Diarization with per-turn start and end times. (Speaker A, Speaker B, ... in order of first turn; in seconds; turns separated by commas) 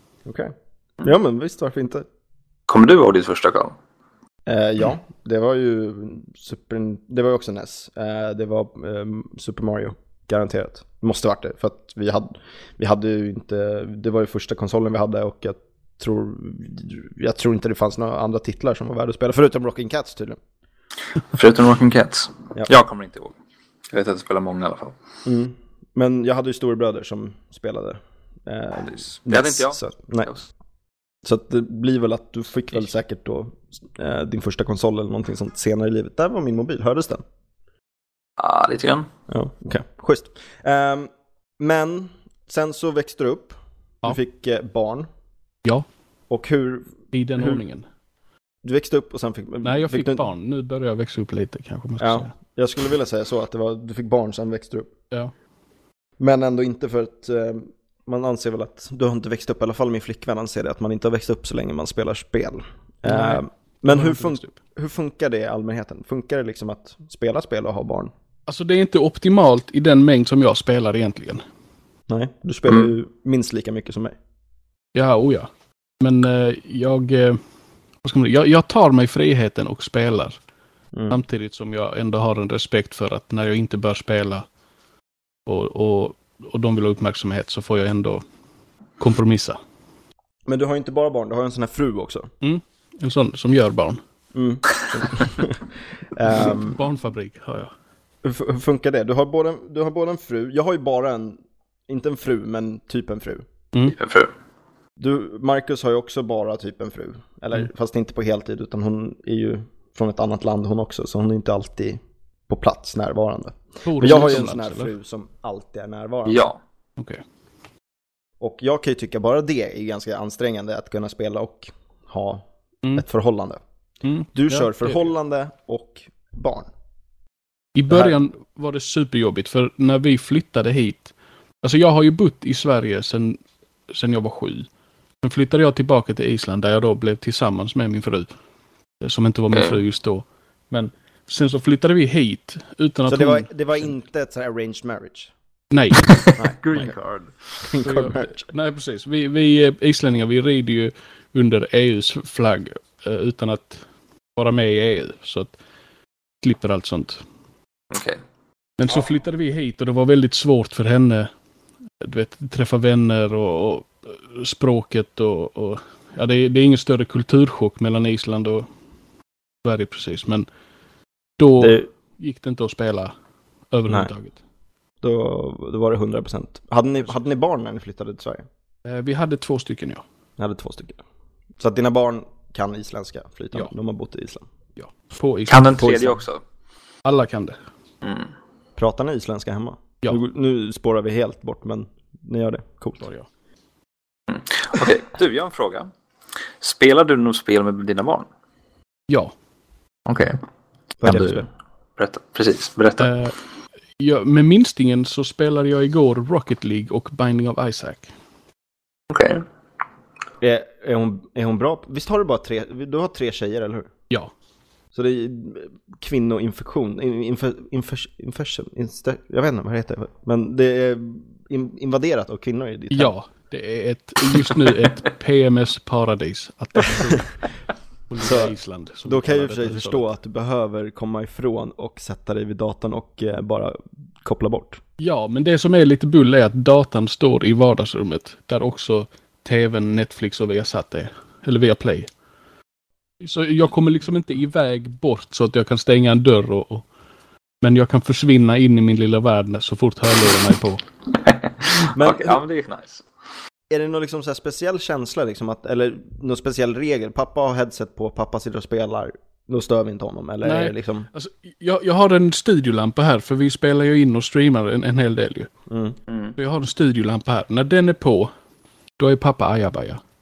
Speaker A: 0.2-2.0, Speaker B: 2.7-3.7, Speaker A: 4.5-20.4, Speaker B: 21.3-23.3, Speaker B: 23.9-24.9, Speaker A: 25.2-30.3, Speaker B: 28.9-30.4, Speaker A: 31.2-37.2, Speaker B: 38.4-39.1, Speaker A: 39.3-45.1, Speaker A: 46.3-47.6, Speaker C: 47.1-47.9, Speaker A: 48.6-50.2, Speaker C: 49.6-52.3, Speaker A: 52.0-54.9, Speaker A: 56.2-68.1, Speaker C: 63.0-64.5, Speaker C: 68.5-71.4, Speaker A: 72.1-74.2, Speaker C: 74.9-75.5, Speaker C: 76.0-77.4, Speaker C: 78.0-80.4, Speaker A: 80.9-81.2, Speaker C: 81.1-84.4, Speaker C: 85.5-88.2, Speaker C: 89.0-89.6, Speaker A: 90.5-92.3, Speaker C: 92.4-94.0, Speaker A: 94.3-96.8, Speaker C: 96.4-97.7, Speaker A: 98.2-103.4, Speaker B: 103.9-104.3, Speaker A: 105.0-116.4, Speaker C: 113.8-114.9, Speaker B: 116.2-116.6, Speaker A: 118.4-123.6, Speaker C: 124.0-125.0, Speaker A: 124.3-126.7, Speaker C: 127.7-133.4, Speaker A: 127.9-128.2, Speaker C: 133.9-134.7, Speaker C: 135.2-138.3, Speaker C: 139.0-143.5, Speaker B: 139.5-139.8, Speaker A: 143.1-145.3, Speaker C: 145.7-146.2, Speaker B: 146.1-147.3, Speaker A: 146.4-146.9, Speaker A: 147.6-148.5, Speaker C: 147.8-153.8, Speaker C: 154.3-155.5, Speaker C: 156.4-157.2, Speaker B: 157.9-158.2, Speaker C: 158.8-161.3, Speaker C: 162.0-168.7, Speaker C: 169.6-170.5, Speaker C: 171.4-173.1, Speaker A: 171.6-171.8, Speaker C: 173.7-174.4, Speaker A: 175.0-178.5, Speaker C: 178.8-180.0, Speaker A: 180.4-181.0, Speaker A: 181.6-184.4, Speaker C: 184.8-186.2, Speaker B: 185.5-186.4, Speaker C: 187.0-187.6, Speaker B: 188.0-188.3, Speaker A: 188.8-193.0, Speaker C: 193.0-193.3, Speaker B: 194.3-195.9, Speaker B: 196.6-198.3, Speaker B: 200.1-200.4, Speaker A: 201.0-201.4, Speaker B: 201.0-201.4, Speaker B: 202.0-203.2, Speaker C: 203.0-203.3, Speaker C: 204.0-208.1, Speaker B: 209.1-209.4, Speaker A: 210.4-213.9, Speaker A: 214.9-223.1, Speaker C: 222.9-227.3, Speaker C: 228.1-230.1, Speaker A: 228.2-228.5, Speaker A: 229.0-234.8, Speaker C: 235.0-242.1, Speaker C: 243.2-246.9, Speaker C: 247.6-250.8, Speaker B: 251.2-253.0, Speaker A: 251.9-252.4, Speaker A: 253.7-261.1, Speaker C: 260.4-265.5, Speaker A: 265.7-266.0, Speaker B: 266.1-266.3, Speaker C: 266.4-268.3, Speaker C: 269.0-270.0